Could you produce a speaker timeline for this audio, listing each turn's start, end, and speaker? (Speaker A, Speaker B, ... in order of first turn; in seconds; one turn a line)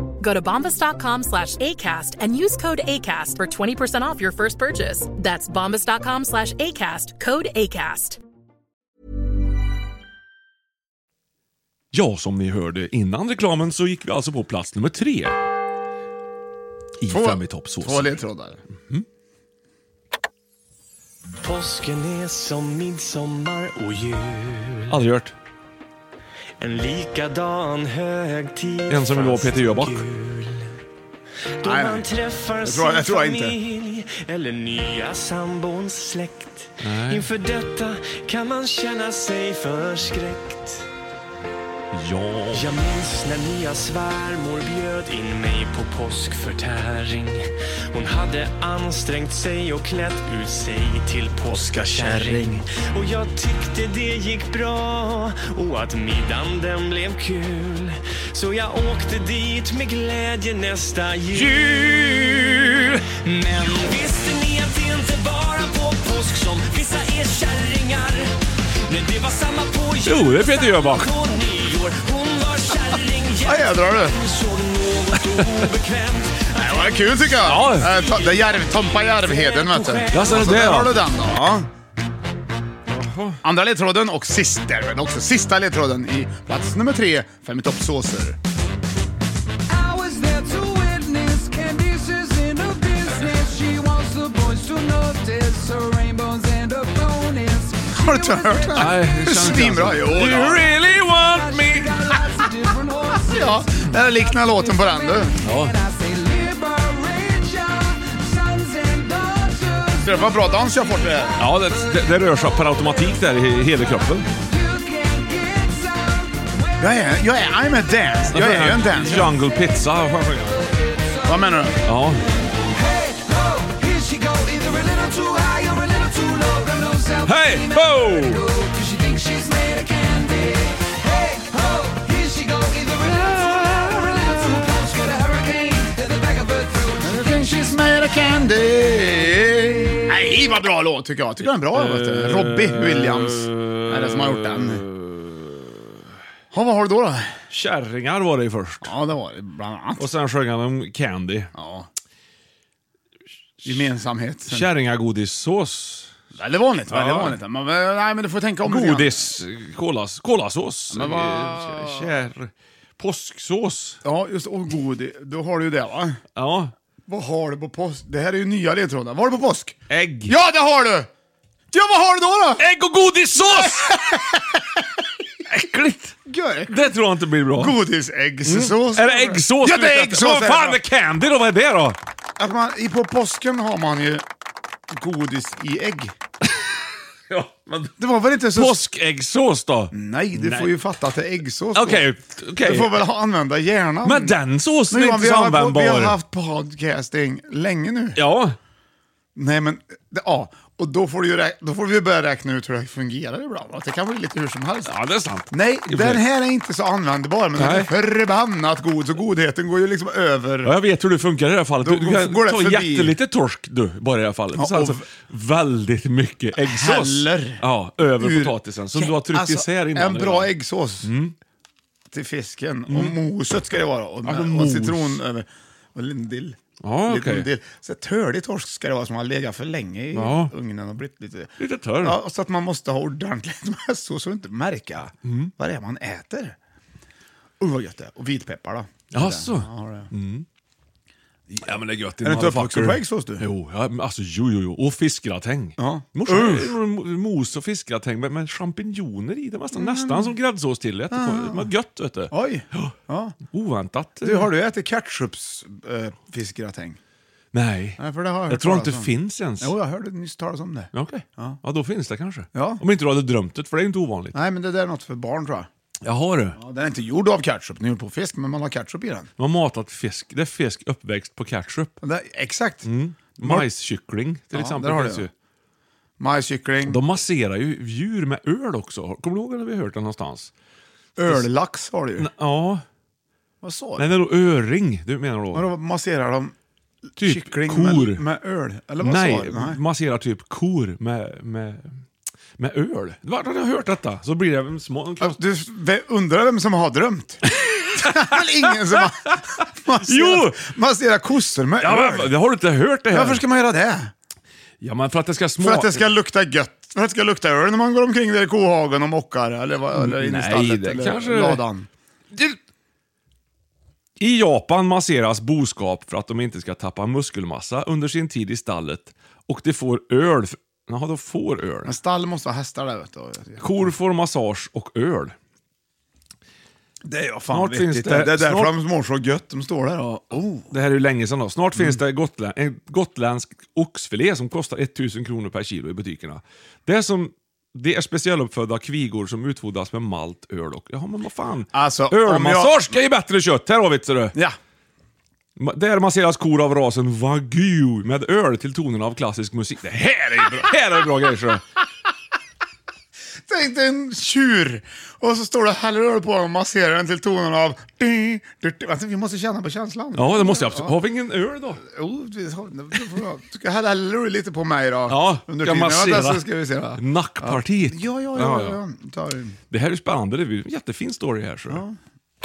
Speaker A: 0.2-8.2
Speaker B: 11.9-15.4
Speaker B: 17.0-18.2
Speaker C: 17.1-18.6
Speaker D: 21.4-24.9
Speaker B: 24.9-25.3
Speaker D: 26.6-30.7
Speaker B: 28.9-30.0
Speaker D: 31.6-40.9
Speaker C: 31.6-32.1
Speaker C: 32.6-33.5
Speaker B: 36.8-37.3
Speaker B: 41.9-42.6
Speaker D: 42.5-62.3
Speaker B: 61.3-63.0
Speaker D: 63.2-68.3
Speaker D: 68.9-77.1
Speaker B: 70.0-71.1
Speaker C: 73.4-74.2
Speaker C: 76.5-81.7
Speaker B: 77.4-78.0
Speaker D: 77.9-80.7
Speaker B: 80.1-81.0
Speaker B: 82.9-83.4
Speaker C: 83.4-88.4
Speaker E: 89.7-98.9
Speaker C: 97.9-100.7
Speaker B: 98.8-102.0
Speaker E: 101.2-112.1
Speaker C: 103.2-105.3
Speaker B: 105.4-105.8
Speaker C: 110.0-111.5
Speaker B: 111.4-114.3
Speaker E: 114.4-116.9
Speaker C: 116.8-119.4
Speaker B: 118.3-120.6
Speaker E: 120.7-121.3
Speaker C: 121.2-121.8
Speaker B: 121.8-122.2
Speaker E: 122.7-137.8
Speaker B: 127.2-128.4
Speaker B: 133.2-134.2
Speaker C: 137.0-144.8
Speaker B: 141.6-145.8
Speaker C: 146.5-147.3
Speaker B: 147.5-148.9
Speaker C: 148.8-150.1
Speaker B: 150.0-151.5
Speaker C: 151.5-151.9
Speaker C: 153.6-154.7
Speaker B: 154.5-156.1
Speaker C: 156.3-159.4
Speaker B: 156.9-157.4
Speaker B: 158.6-164.0
Speaker C: 160.9-162.2
Speaker C: 164.0-166.2
Speaker B: 166.3-166.7
Speaker C: 167.1-171.1
Speaker B: 169.9-170.3
Speaker C: 171.7-172.6
Speaker B: 172.6-174.2
Speaker C: 173.5-175.0
Speaker B: 175.5-176.2
Speaker C: 176.2-176.9
Speaker B: 176.7-177.8
Speaker C: 177.5-180.8
Speaker B: 178.4-182.0
Speaker C: 182.4-184.2
Speaker C: 184.9-186.2
Speaker B: 187.3-190.7
Speaker C: 188.0-188.8
Speaker C: 189.9-192.1
Speaker B: 191.7-193.0
Speaker C: 192.6-194.4
Speaker B: 194.0-196.2
Speaker C: 194.9-198.2
Speaker B: 198.2-198.6
Speaker C: 199.3-204.9
Speaker B: 204.8-206.2
Speaker C: 205.5-210.8
Speaker B: 207.6-207.9
Speaker B: 210.6-220.5
Speaker C: 211.8-213.2
Speaker C: 214.5-215.0
Speaker C: 216.6-221.1
Speaker B: 221.0-221.3
Speaker C: 222.1-236.6
Speaker B: 222.9-223.2
Speaker B: 224.2-225.2
Speaker B: 226.8-227.5
Speaker B: 230.1-230.5
Speaker B: 231.6-232.2
Speaker B: 235.2-235.5
Speaker C: 237.6-240.1
Speaker B: 239.1-240.4
Speaker C: 241.5-243.5
Speaker B: 241.6-252.9
Speaker C: 245.8-246.8
Speaker C: 249.7-250.3
Speaker C: 251.1-251.7
Speaker C: 252.3-253.4
Speaker B: 253.5-254.5
Speaker C: 254.2-257.0
Speaker B: 257.5-259.7
Speaker C: 258.0-261.6
Speaker B: 260.9-264.4
Speaker C: 262.5-262.8
Speaker C: 264.3-265.7
Speaker B: 266.0-266.6
Speaker C: 266.5-269.3
Speaker B: 269.4-271.9
Speaker C: 272.0-272.9
Speaker B: 272.8-275.3
Speaker C: 273.4-273.7
Speaker C: 274.5-275.3
Speaker C: 276.2-277.0
Speaker B: 276.8-280.5
Speaker C: 281.1-282.3
Speaker B: 282.2-282.8
Speaker C: 283.6-284.1
Speaker B: 284.0-285.7
Speaker C: 285.5-286.5
Speaker C: 287.2-289.8
Speaker B: 287.2-288.2
Speaker B: 289.0-292.0
Speaker B: 292.6-295.4
Speaker C: 295.2-302.3
Speaker B: 297.5-299.1
Speaker B: 300.0-300.7
Speaker B: 301.8-303.4
Speaker C: 303.1-304.1
Speaker B: 304.8-306.1
Speaker C: 305.6-311.9
Speaker B: 309.9-311.6
Speaker B: 312.3-312.6
Speaker B: 314.2-321.9
Speaker C: 321.8-323.9
Speaker B: 323.6-325.3
Speaker C: 327.0-330.7
Speaker B: 327.5-328.7
Speaker B: 330.7-344.4
Speaker C: 331.8-332.0
Speaker C: 341.7-342.9
Speaker B: 345.6-351.6
Speaker C: 350.3-350.7
Speaker C: 353.5-361.0
Speaker B: 360.1-361.8
Speaker C: 361.8-369.6
Speaker B: 365.1-368.8
Speaker B: 369.7-371.8
Speaker C: 371.7-372.0